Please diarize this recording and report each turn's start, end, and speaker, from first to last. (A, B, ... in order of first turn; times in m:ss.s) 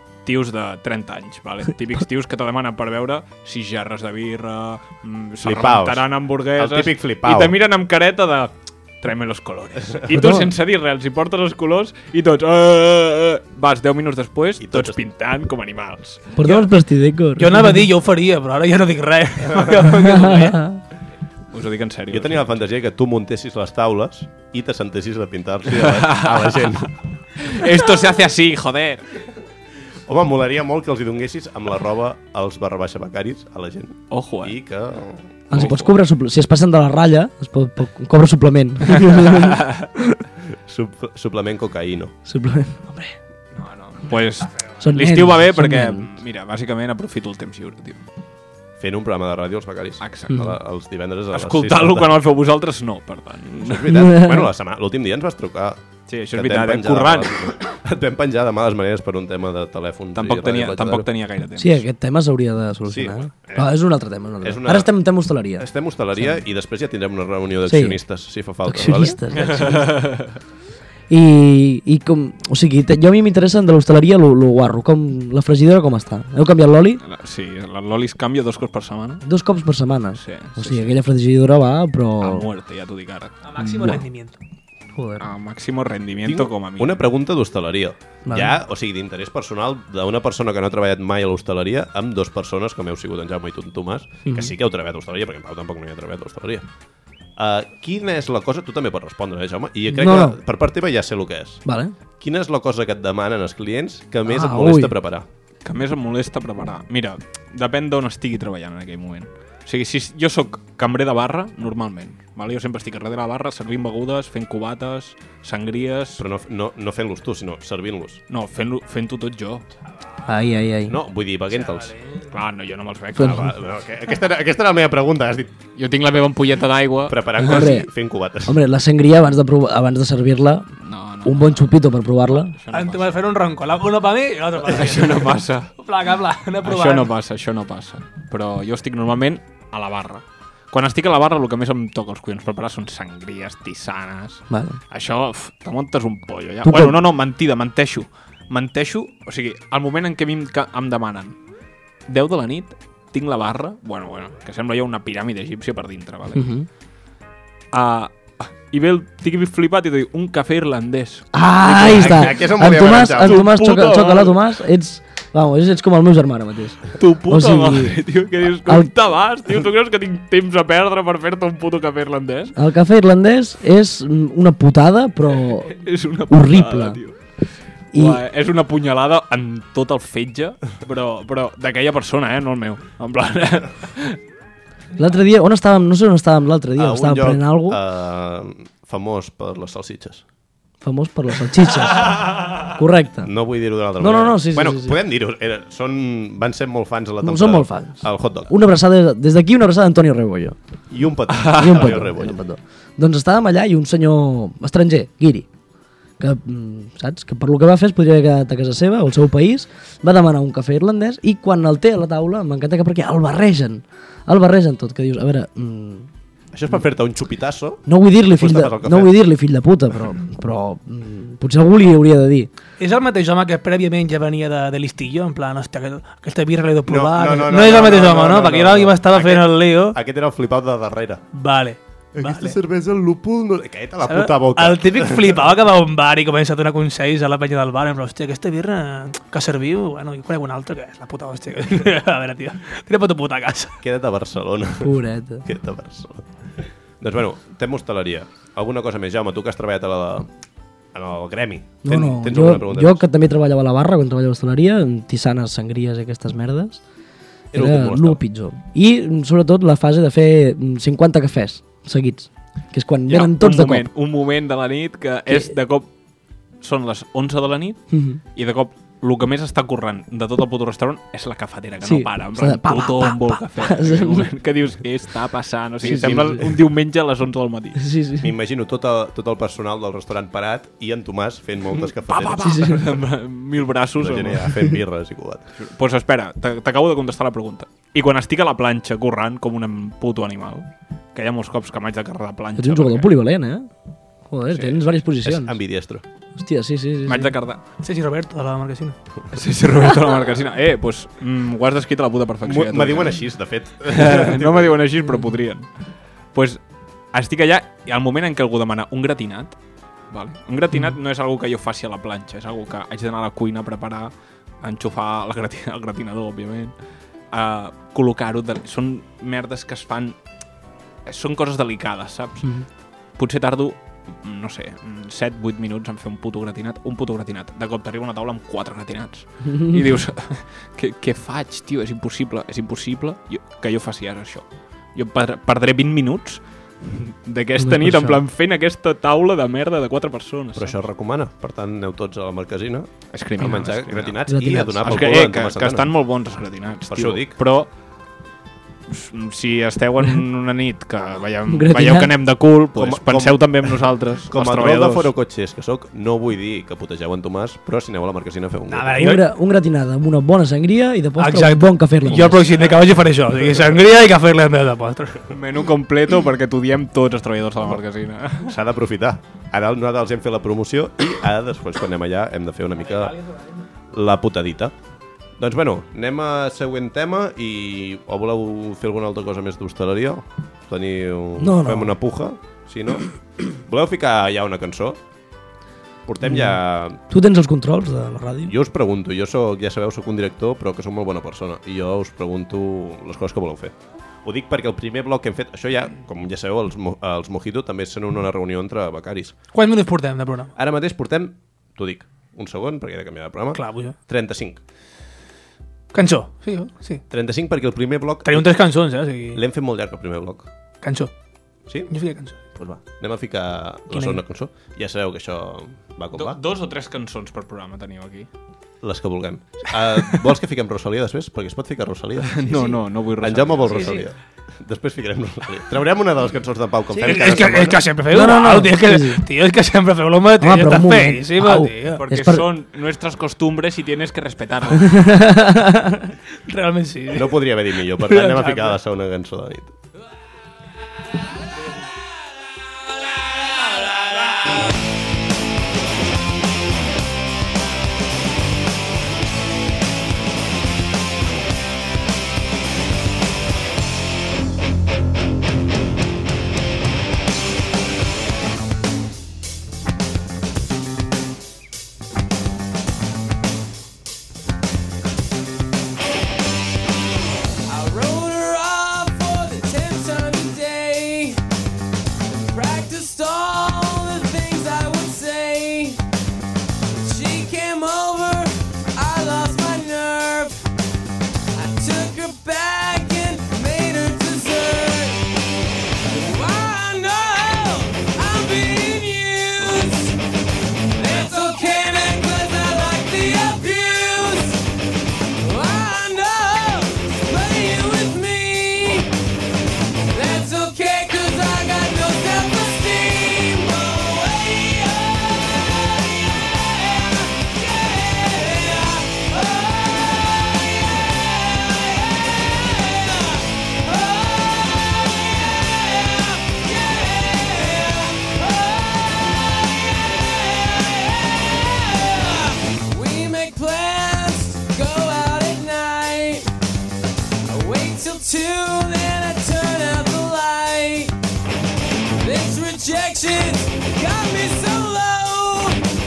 0:00.2-0:16.3 A
0:05.4-0:07.6 B
0:10.1-0:10.5 C
0:14.6-0:15.0 B
0:16.4-0:17.8 C
0:17.4-0:20.6 D
0:20.0-0:20.8 C
0:20.0-0:20.6 A
0:21.5-0:22.5 A
0:22.1-0:27.0 B
0:25.7-0:26.8 A
0:27.4-0:29.0 A
0:30.1-0:35.3 B
0:34.1-0:34.6 A
0:35.5-0:40.2 C
0:35.5-0:36.0 A
0:40.7-0:42.2 B
0:42.2-0:43.1 C
0:43.5-0:48.0 A
0:44.8-0:46.1 C
0:48.8-0:52.1 B
0:50.0-0:50.5 A
0:50.3-0:50.6 C
0:51.3-0:53.9 A
0:53.6-0:55.8 B
0:53.9-0:54.5 C
0:56.1-0:57.5 A
0:56.3-1:01.1 B
1:00.2-1:01.8 A
1:01.6-1:06.4 C
1:02.9-1:03.7 B
1:04.4-1:04.9 B
1:05.6-1:09.2 B
1:07.7-1:08.0 C
1:08.6-1:09.9 C
1:09.3-1:10.4 A
1:11.1-1:17.0 C
1:17.0-1:19.2 A
1:19.2-1:22.5 C
1:20.2-1:20.9 A
1:22.2-1:23.3 A
1:23.4-1:24.4 D
1:23.6-1:24.0 C
1:24.9-1:25.3 C
1:25.2-1:27.0 A
1:26.2-1:36.7 B
1:28.3-1:28.6 C
1:34.3-1:34.5 C
1:37.4-1:41.6 B
1:39.9-1:40.4 C
1:41.6-1:41.9 C
1:42.2-1:45.3 B
1:44.3-1:44.9 C
1:45.6-1:56.2 A
1:56.2-1:58.2 B
1:58.3-1:59.6 A
2:00.3-2:01.0 C
2:00.9-2:02.0 B
2:02.3-2:03.5 A
2:03.2-2:03.5 C
2:03.2-2:05.6 B
2:05.8-2:07.7 A
2:07.1-2:08.6 B
2:07.4-2:07.9 C
2:08.4-2:10.7 C
2:10.8-2:11.7 A
2:11.2-2:12.6 C
2:12.3-2:13.2 A
2:12.7-2:17.1 D
2:14.7-2:15.7 A
2:16.6-2:31.4 A
2:24.5-2:24.8 C
2:26.6-2:27.0 C
2:32.1-2:36.5 A
2:36.3-2:36.7 C
2:37.7-2:44.4 A
2:41.3-2:48.0 C
2:41.7-2:43.5 B
2:47.0-2:52.6 A
2:48.6-2:48.9 C
2:52.6-2:55.8 C
2:55.7-2:57.2 A
2:56.3-2:57.0 C
2:57.9-3:04.2 A
2:57.9-2:58.2 C
3:05.0-3:07.8 C
3:06.8-3:10.2 B
3:10.8-3:13.3 C
3:13.2-3:18.5 B
3:14.0-3:15.0 C
3:17.2-3:20.6 C
3:20.9-3:22.4 B
3:21.3-3:22.0 A
3:21.5-3:25.5 C
3:26.2-3:36.1 C
3:36.5-3:39.2 B
3:37.9-3:42.5 C
3:42.8-3:50.0 D
3:46.9-3:51.2 B
3:51.3-3:52.6 D
3:52.2-3:55.4 B
3:54.0-4:03.8 D
4:03.8-4:06.3 B
4:04.8-4:05.4 C
4:07.0-4:10.3 B
4:10.9-4:13.0 B
4:11.8-4:16.8 C
4:17.5-4:18.2 B
4:17.5-4:23.9 C
4:23.1-4:25.9 A
4:26.6-4:37.9 A
4:27.9-4:28.2 C
4:31.8-4:34.3 C
4:35.8-4:36.5 C
4:35.8-4:36.5 B
4:37.8-4:38.4 C
4:38.2-4:42.8 B
4:41.7-4:44.6 A
4:42.4-4:42.9 C
4:44.0-4:45.5 B
4:45.6-4:53.1 A
4:52.6-4:53.7 C
4:54.3-4:55.6 C
4:54.5-4:54.8 A
4:55.2-4:56.0 B
4:56.4-4:57.4 C
4:57.1-4:57.6 A
4:57.8-4:59.0 D
4:59.3-5:03.2 A
5:02.4-5:04.7 B
5:03.9-5:05.7 A
5:06.3-5:06.6 A
5:07.1-5:09.6 A
5:10.1-5:16.7 A
5:17.3-5:20.2 A
5:21.1-5:22.5 A
5:23.2-5:40.8 A
5:29.5-5:29.8 C
5:37.6-5:38.2 C
5:40.6-5:45.9 B
5:43.1-5:44.2 A
5:44.3-5:45.1 C
5:44.8-5:47.7 A
5:46.9-5:47.4 B
5:48.9-5:55.1 A
5:51.5-5:52.1 C
5:52.8-5:53.7 B
5:54.3-5:59.2 B
5:58.7-5:59.2 D
5:59.0-6:02.6 C
6:01.2-6:05.3 D
6:05.3-6:08.5 A
6:08.4-6:13.2 B
6:12.8-6:13.6 D
6:13.9-6:14.7 B
6:15.4-6:25.0 B
6:21.4-6:22.0 C
6:26.1-6:27.0 B
6:26.2-6:28.5 C
6:28.5-6:39.4 B
6:39.5-6:40.5 D
6:40.6-6:44.6 B
6:43.5-6:44.0 D
6:45.9-6:47.0 D
6:47.1-6:48.6 B
6:48.2-6:49.4 D
6:49.3-6:50.5 B
6:50.8-6:51.1 D
6:51.7-6:51.9 B
6:51.9-6:52.4 D
6:52.5-6:56.4 B
6:53.9-6:54.2 D
6:56.1-6:58.3 A
6:58.8-7:07.8 B
7:02.2-7:04.0 A
7:03.7-7:04.0 D
7:07.0-7:12.0 D
7:08.1-7:09.2 C
7:10.4-7:12.5 C
7:12.0-7:15.1 A
7:14.8-7:16.1 C
7:16.5-7:17.4 D
7:17.1-7:19.7 B
7:18.0-7:18.8 D
7:47.7-7:51.4 E
7:52.3-7:56.0 E
7:57.0-8:00.6 E
8:01.5-8:05.2 E
8:06.1-8:10.2 E
8:11.0-8:14.6 E
8:15.4-8:19.1 E
8:20.1-8:46.5 E
8:47.5-8:51.1 E
8:52.2-8:55.8 E